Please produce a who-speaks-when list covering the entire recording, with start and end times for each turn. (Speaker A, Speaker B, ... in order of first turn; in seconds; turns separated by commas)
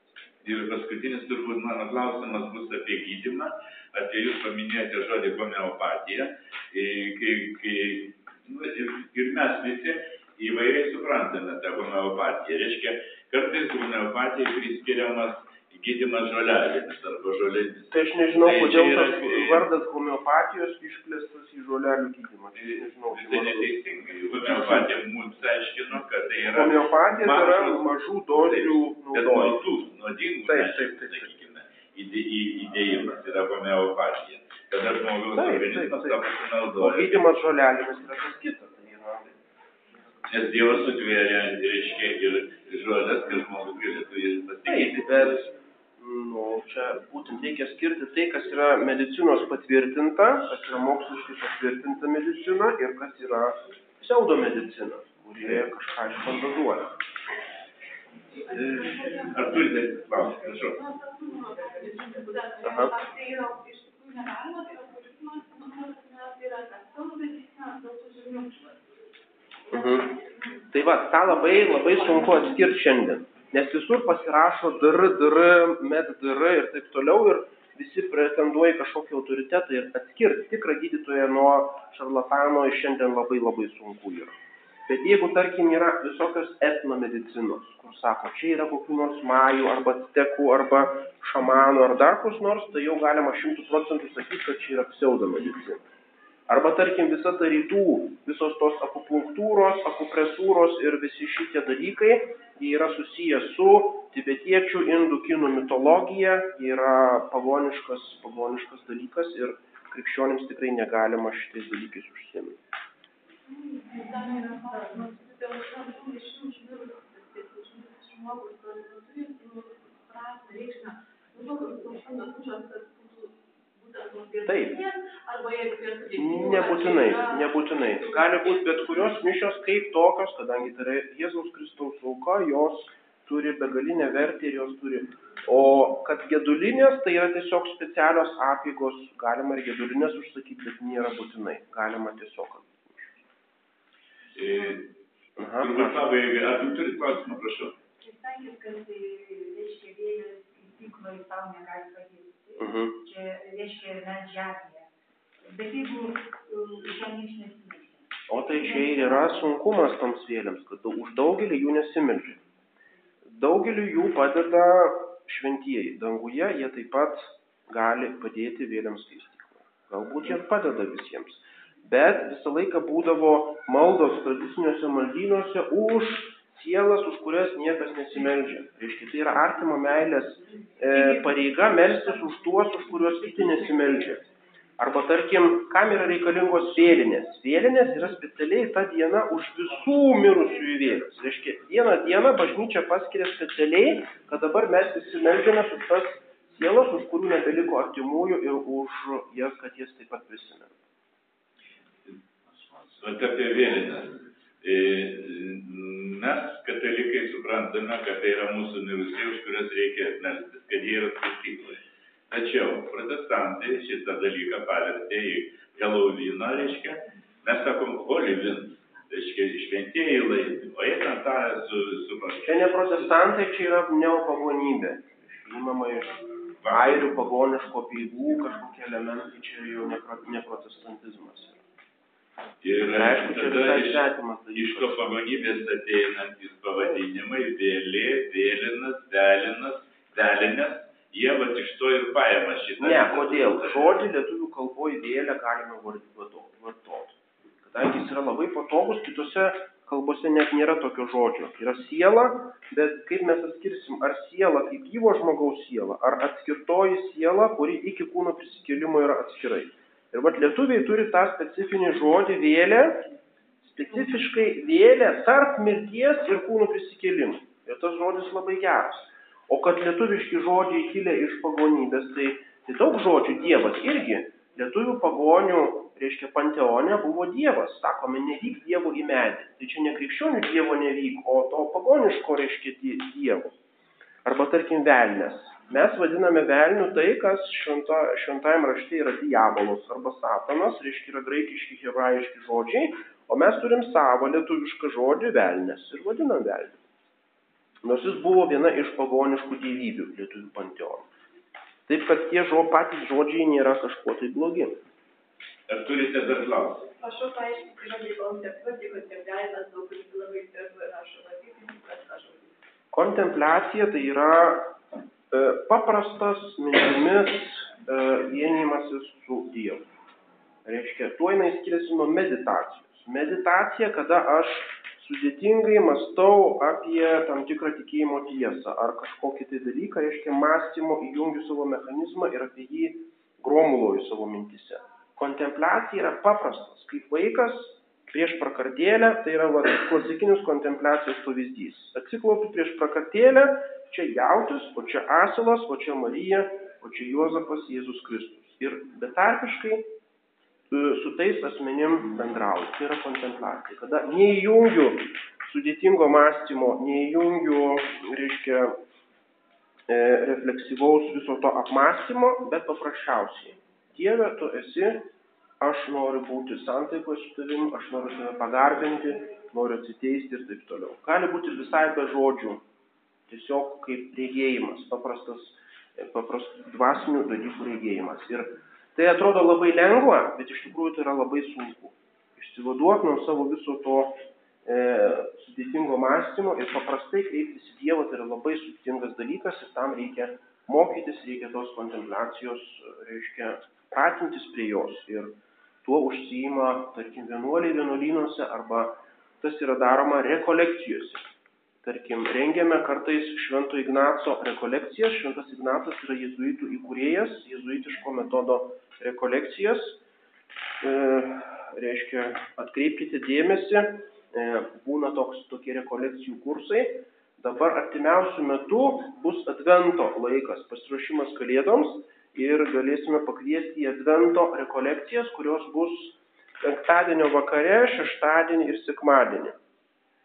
Speaker A: 0.4-19.6, Speaker B: 17.9-23.8, Speaker A: 22.6-37.3, Speaker B: 24.3-24.9, Speaker B: 26.5-29.7, Speaker B: 30.4-31.3, Speaker B: 35.3-39.3, Speaker A: 40.3-45.5, Speaker B: 44.6-57.0, Speaker C: 58.3-68.8, Speaker A: 58.7-60.8, Speaker B: 62.6-62.9, Speaker C: 69.7-70.7, Speaker B: 69.7-70.1, Speaker B: 70.7-84.3, Speaker C: 71.5-72.4, Speaker B: 84.9-95.8, Speaker B: 96.5-112.6, Speaker C: 113.5-128.6, Speaker B: 124.5-124.8, Speaker B: 126.2-143.1, Speaker A: 144.3-144.9, Speaker B: 145.4-146.0, Speaker A: 145.5-147.8, Speaker D: 148.0-154.9, Speaker B: 152.6-152.9, Speaker D: 155.4-159.5, Speaker B: 158.3-162.4, Speaker B: 163.3-184.2, Speaker B: 184.8-200.7, Speaker A: 202.9-223.2, Speaker B: 222.4-226.2, Speaker A: 226.6-227.1, Speaker B: 226.7-231.6, Speaker A: 232.6-244.1, Speaker B: 232.9-235.3, Speaker B: 242.8-283.5, Speaker B: 284.2-296.8, Speaker B: 297.8-301.1, Speaker B: 301.9-304.8, Speaker A: 305.7-306.9, Speaker C: 307.0-312.5, Speaker B: 312.9-314.8, Speaker B: 315.3-319.9, Speaker B: 320.6-349.9, Speaker B: 350.7-358.8, Speaker B: 359.9-372.6, Speaker B: 373.3-401.3, Speaker B: 401.8-410.0, Speaker B: 410.8-429.6